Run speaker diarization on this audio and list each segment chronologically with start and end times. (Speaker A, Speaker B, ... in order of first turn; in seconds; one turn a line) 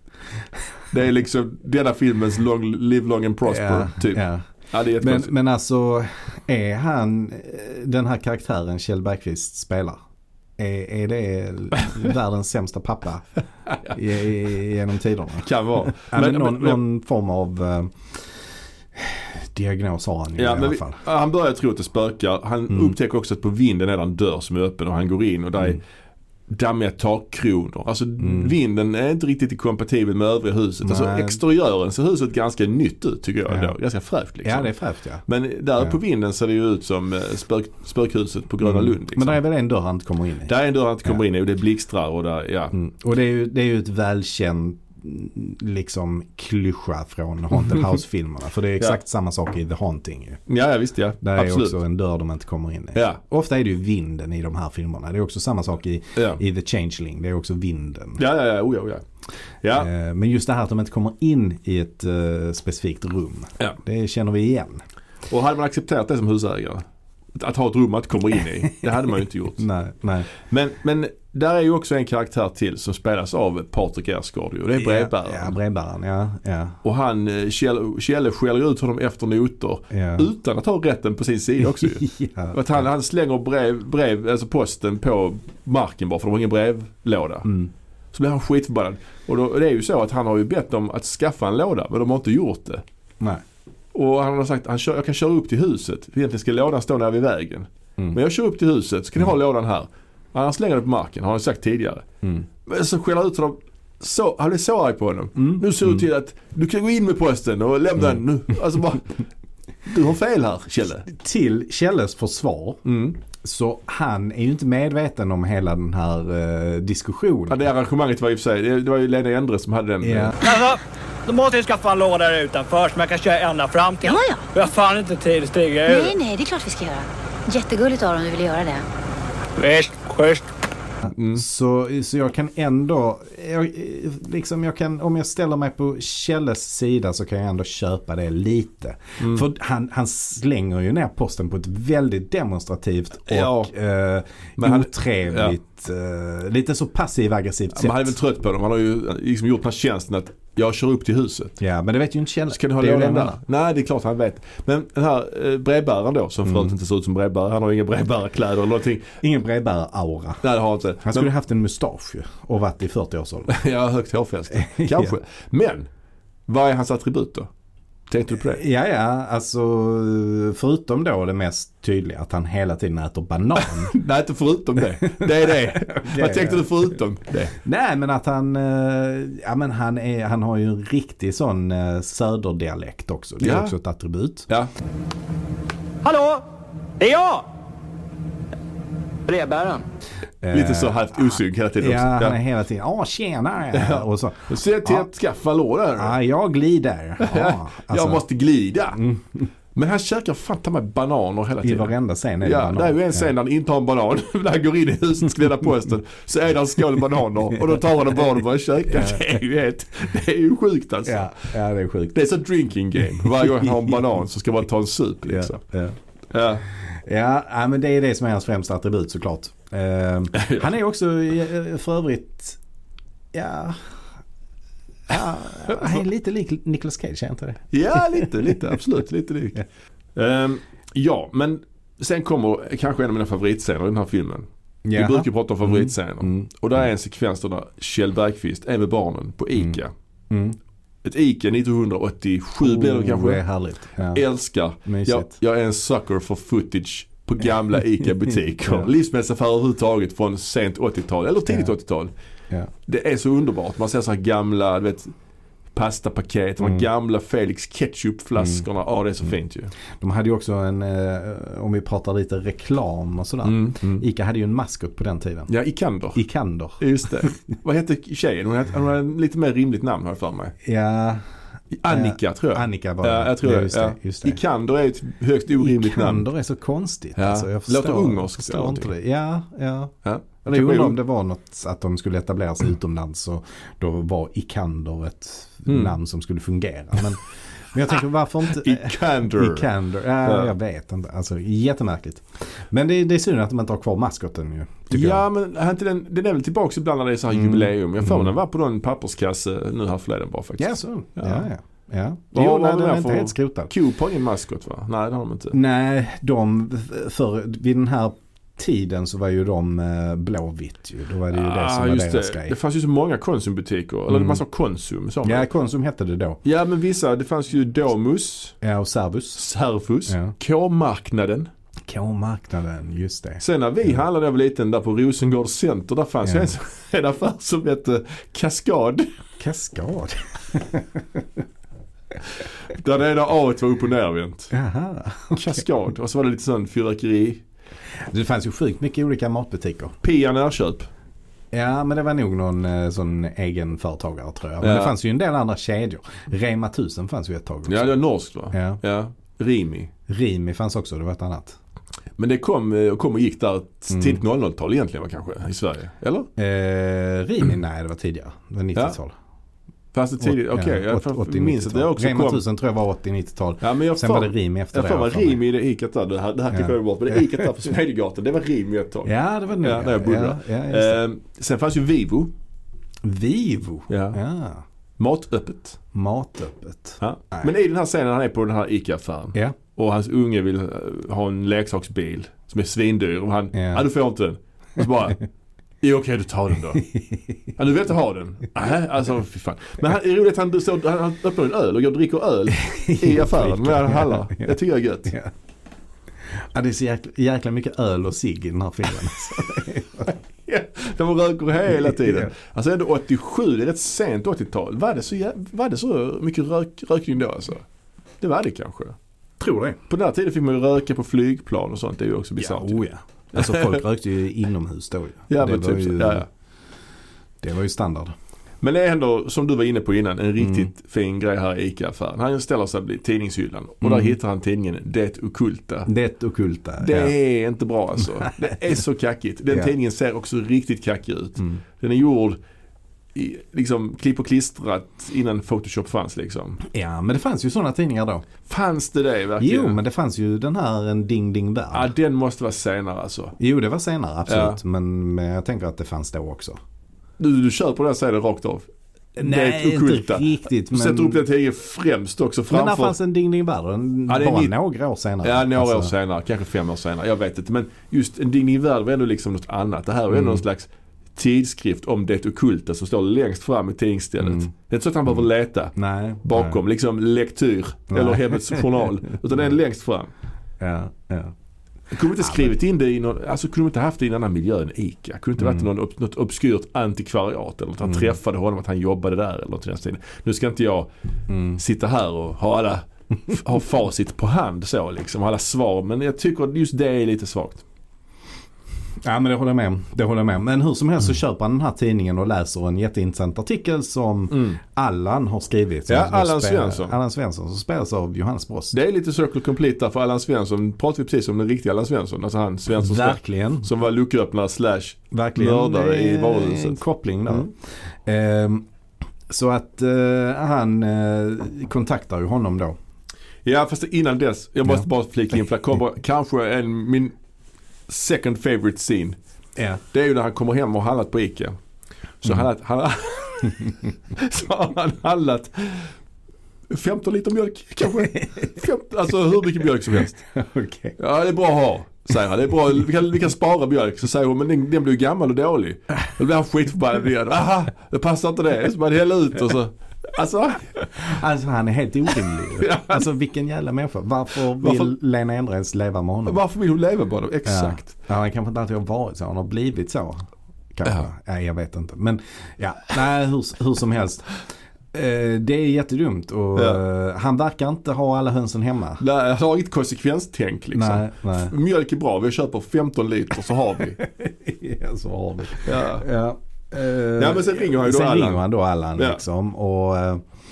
Speaker A: 0.9-5.3
Speaker B: 3.5-4.4
Speaker B: 5.0-10.0
Speaker B: 10.6-13.3
Speaker A: 13.7-14.0
Speaker B: 13.9-18.2
Speaker A: 15.4-16.8
Speaker B: 18.9-21.0
Speaker A: 20.4-25.8
Speaker B: 22.7-22.9
Speaker A: 26.5-34.7
Speaker B: 28.2-28.5
Speaker B: 30.8-31.4
Speaker B: 33.5-33.7
Speaker B: 34.4-35.2
Speaker A: 35.3-39.4
Speaker B: 38.6-40.5
Speaker A: 40.5-42.8
Speaker B: 42.7-50.4
Speaker A: 50.5-51.8
Speaker B: 51.2-58.2
Speaker A: 53.0-53.2
Speaker A: 56.1-56.4
Speaker A: 58.2-59.0
Speaker A: 59.6-59.9
Speaker B: 59.7-64.8
Speaker A: 65.3-69.7
Speaker B: 69.6-70.3
Speaker A: 70.3-75.6
Speaker B: 74.8-76.8
Speaker A: 76.8-87.5
Speaker B: 79.9-80.3
Speaker B: 81.6-82.9
Speaker B: 87.5-87.7
Speaker A: 88.1-92.8
Speaker A: 93.9-102.0
Speaker A: 102.7-109.2
Speaker B: 105.4-106.0
Speaker A: 109.9-111.1
Speaker B: 111.1-112.8
Speaker A: 112.8-113.2
Speaker B: 113.3-117.6
Speaker A: 117.5-120.3
Speaker B: 120.0-120.4
Speaker C: 120.4-126.1
Speaker D: 124.0-124.5
Speaker D: 125.9-128.8
Speaker C: 129.6-130.5
Speaker A: 131.1-131.4
Speaker B: 131.3-148.1
Speaker A: 143.3-143.7
Speaker A: 144.6-145.6
Speaker A: 147.7-151.6
Speaker B: 151.6-153.4
Speaker A: 152.5-159.1
Speaker B: 156.4-156.7
Speaker B: 159.2-160.4
Speaker A: 160.4-161.3
Speaker B: 161.0-163.6
Speaker A: 163.5-165.9
Speaker B: 164.6-165.1
Speaker A: 166.5-167.5
Speaker A: 168.1-168.6
Speaker B: 168.3-173.9
Speaker A: 173.6-177.6
Speaker B: 175.0-176.9
Speaker B: 177.6-184.5
Speaker A: 183.4-183.7
Speaker C: 186.0-186.4
Speaker C: 187.0-187.5
Speaker C: 189.3-189.8
Speaker B: 190.4-195.1
Speaker A: 190.5-192.4
Speaker A: 193.7-196.2
Speaker B: 196.0-198.2
Speaker A: 197.2-199.0
Speaker B: 198.9-199.5
Speaker A: 199.8-211.4
Speaker B: 201.6-203.3
Speaker B: 208.9-209.3
Speaker B: 211.1-212.2
Speaker A: 212.1-215.6
Speaker B: 213.2-214.0
Speaker B: 215.2-216.0
Speaker A: 216.3-216.7
Speaker B: 216.8-222.6
Speaker A: 220.3-220.7
Speaker B: 223.3-223.9
Speaker B: 225.1-228.6
Speaker A: 227.7-229.6
Speaker A: 230.2-239.9
Speaker B: 234.8-236.5
Speaker B: 240.3-240.6
Speaker A: 241.0-243.4
Speaker B: 242.6-244.2
Speaker A: 244.1-252.1
Speaker B: 244.8-245.3
Speaker A: 252.9-255.1
Speaker A: 255.8-259.7
Speaker B: 256.6-256.9
Speaker B: 258.4-258.6
Speaker B: 260.0-265.5
Speaker A: 263.4-264.0
Speaker A: 265.5-266.2
Speaker B: 266.1-266.8
Speaker A: 266.8-270.5
Speaker B: 270.6-271.2
Speaker A: 271.7-276.3
Speaker B: 271.9-274.4
Speaker B: 275.6-279.9
Speaker A: 277.2-278.9
Speaker A: 280.0-281.0
Speaker B: 280.5-287.2
Speaker A: 285.7-286.0
Speaker B: 287.7-295.3
Speaker A: 288.5-289.7
Speaker A: 290.2-290.5
Speaker A: 294.9-301.5
Speaker B: 297.3-298.4
Speaker B: 300.6-303.7
Speaker A: 302.3-305.6
Speaker B: 305.5-312.6
Speaker A: 311.3-315.5
Speaker B: 314.1-314.4
Speaker B: 315.2-316.4
Speaker A: 316.4-318.6
Speaker B: 318.6-319.4
Speaker A: 319.4-321.5
Speaker B: 320.1-320.3
Speaker B: 321.9-323.4
Speaker A: 323.4-329.1
Speaker B: 326.2-326.5
Speaker B: 329.4-331.2
Speaker A: 332.7-334.5
Speaker B: 334.5-335.6
Speaker A: 335.3-337.4
Speaker B: 338.1-340.0
Speaker A: 340.0-340.9
Speaker B: 341.5-347.9
Speaker A: 344.6-344.9
Speaker A: 347.7-349.9
Speaker B: 348.5-348.8
Speaker B: 350.1-351.6
Speaker A: 352.2-356.3
Speaker B: 353.9-354.2
Speaker B: 356.4-359.1
Speaker A: 359.9-362.4
Speaker B: 360.2-365.4
Speaker A: 363.6-372.3
Speaker B: 366.5-367.4
Speaker B: 369.1-371.0
Speaker B: 373.0-374.6
Speaker A: 373.9-374.2
Speaker A: 375.0-375.8
Speaker B: 375.9-377.5
Speaker A: 377.0-385.2
Speaker B: 383.5-383.9
Speaker A: 385.8-386.9
Speaker B: 386.8-387.3
Speaker A: 387.6-395.1
Speaker B: 392.6-394.6
Speaker B: 396.3-400.2
Speaker A: 400.5-407.6
Speaker B: 401.7-402.3
Speaker A: 408.2-409.0
Speaker B: 409.4-409.8
Speaker A: 409.9-412.8
Speaker B: 412.4-416.2
Speaker A: 413.4-413.8
Speaker A: 415.3-416.3
Speaker B: 417.4-418.1
Speaker A: 418.6-425.9
Speaker B: 420.4-420.7
Speaker B: 423.8-424.2
Speaker B: 425.9-427.1
Speaker A: 426.8-432.4
Speaker B: 428.2-428.5
Speaker A: 433.1-436.6
Speaker B: 436.6-438.3
Speaker A: 438.5-439.8
Speaker B: 439.4-441.9
Speaker A: 441.7-443.4
Speaker B: 443.4-446.6
Speaker A: 444.3-444.6
Speaker A: 447.2-448.7
Speaker B: 449.2-451.2
Speaker A: 449.2-452.9
Speaker B: 452.5-455.9
Speaker A: 454.1-454.5
Speaker A: 455.2-470.1
Speaker B: 460.1-460.4
Speaker B: 464.2-464.5
Speaker B: 465.8-466.6
Speaker B: 467.9-468.9
Speaker B: 470.6-471.4
Speaker A: 471.9-480.9
Speaker B: 472.2-472.6
Speaker B: 475.4-475.7
Speaker B: 477.8-478.1
Speaker B: 481.3-481.6
Speaker A: 481.6-487.6
Speaker B: 489.0-498.8
Speaker A: 494.3-494.6
Speaker A: 495.9-496.9
Speaker A: 498.7-507.5
Speaker B: 502.8-503.7
Speaker B: 505.1-508.7
Speaker B: 509.3-512.8
Speaker A: 513.5-517.1
Speaker A: 517.9-519.2
Speaker A: 519.9-521.6
Speaker A: 522.2-525.9
Speaker A: 526.7-530.2
Speaker B: 528.0-528.6
Speaker B: 530.3-531.0
Speaker A: 531.0-541.1
Speaker B: 541.0-546.4
Speaker A: 542.4-543.0
Speaker A: 544.6-544.9
Speaker A: 546.3-547.9
Speaker B: 547.5-554.4
Speaker B: 554.9-559.0
Speaker A: 556.5-556.8
Speaker A: 559.0-564.0
Speaker B: 560.7-561.5
Speaker B: 564.0-570.2
Speaker A: 565.6-566.1
Speaker A: 567.2-568.5
Speaker A: 569.0-569.2